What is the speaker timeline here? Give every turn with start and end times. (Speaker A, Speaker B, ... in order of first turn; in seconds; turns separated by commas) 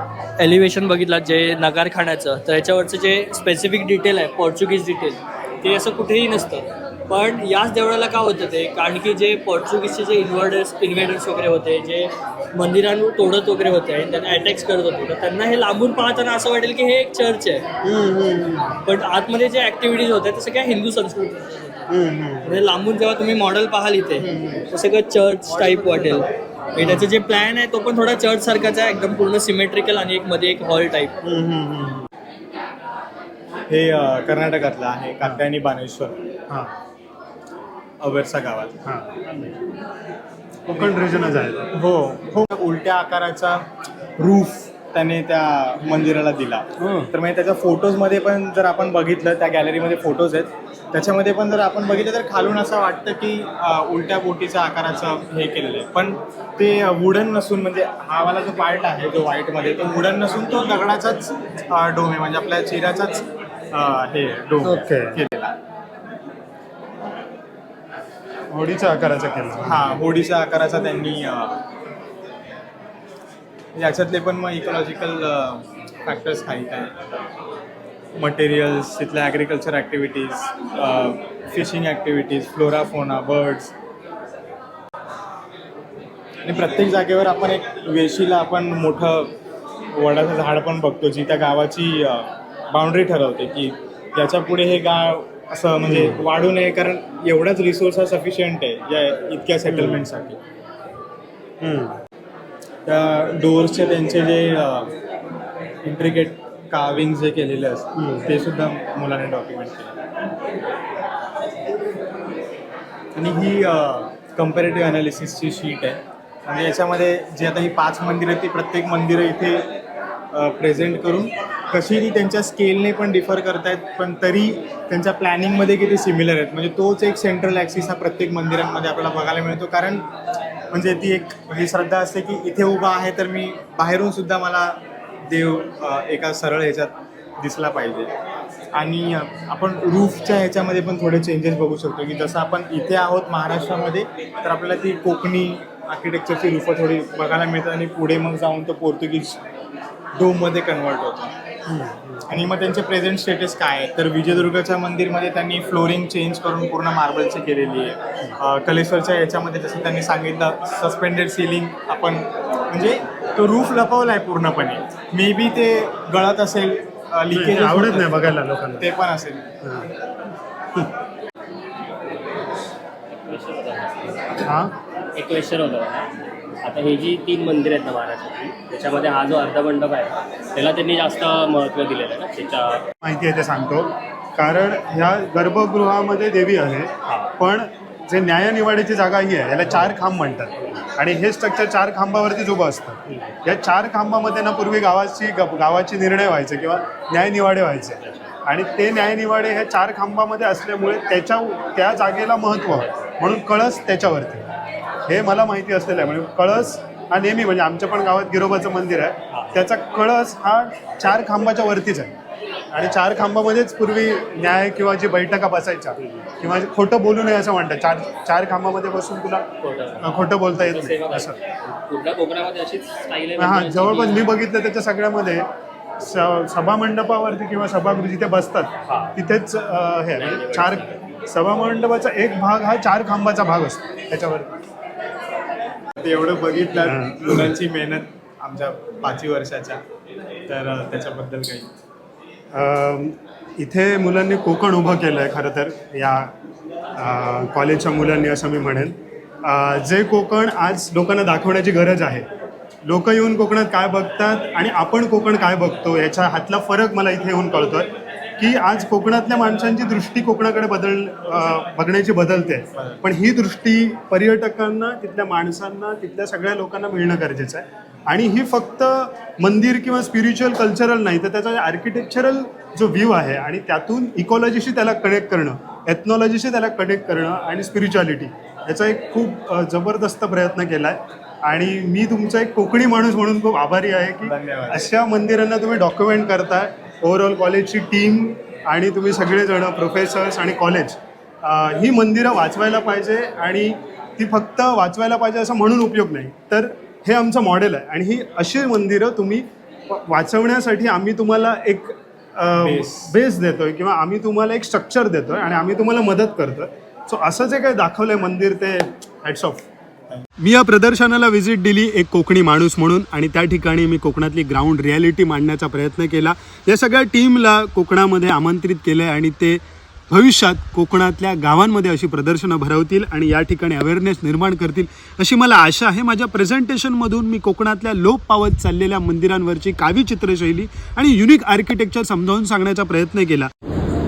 Speaker A: 0.4-17.6, Speaker B: 17.8-18.8, Speaker A: 18.9-21.9, Speaker B: 21.9-22.5, Speaker A: 22.4-31.1, Speaker B: 24.2-24.7, Speaker C: 25.8-26.2, Speaker B: 26.8-27.1, Speaker B: 31.2-32.1, Speaker C: 33.7-36.2, Speaker C: 38.0-38.8, Speaker B: 40.7-41.7, Speaker C: 40.7-41.0, Speaker C: 41.7-43.6, Speaker C: 44.2-65.5, Speaker B: 46.8-47.1, Speaker B: 64.6-65.2, Speaker B: 68.5-69.9, Speaker C: 69.6-71.6, Speaker C: 73.8-76.9, Speaker C: 78.2-83.7, Speaker C: 86.5-89.3, Speaker C: 89.9-100.4, Speaker B: 95.9-96.2, Speaker B: 99.7-100.0, Speaker B: 101.6-102.0, Speaker C: 102.9-104.9, Speaker C: 105.8-109.9, Speaker B: 108.0-108.3, Speaker C: 113.2-119.7, Speaker C: 120.3-130.1, Speaker C: 130.7-138.1, Speaker C: 138.7-149.4, Speaker C: 150.1-151.3, Speaker B: 151.7-152.3, Speaker C: 152.3-169.5, Speaker B: 167.3-168.9, Speaker B: 169.6-169.9, Speaker D: 173.3-173.9, Speaker B: 174.5-174.8, Speaker D: 175.2-176.1, Speaker D: 176.6-182.8, Speaker B: 183.0-204.5, Speaker B: 205.1-212.2, Speaker B: 212.7-221.4, Speaker D: 216.0-216.3, Speaker D: 219.6-224.3, Speaker B: 223.4-225.5, Speaker B: 226.0-234.6, Speaker D: 228.9-229.1, Speaker D: 230.2-231.0, Speaker C: 236.0-239.8, Speaker B: 236.8-237.5, Speaker C: 240.5-241.7, Speaker B: 242.5-246.3, Speaker B: 247.0-252.3, Speaker B: 252.8-309.7, Speaker C: 262.7-263.0, Speaker C: 284.2-284.9, Speaker C: 302.6-303.1, Speaker B: 310.4-333.5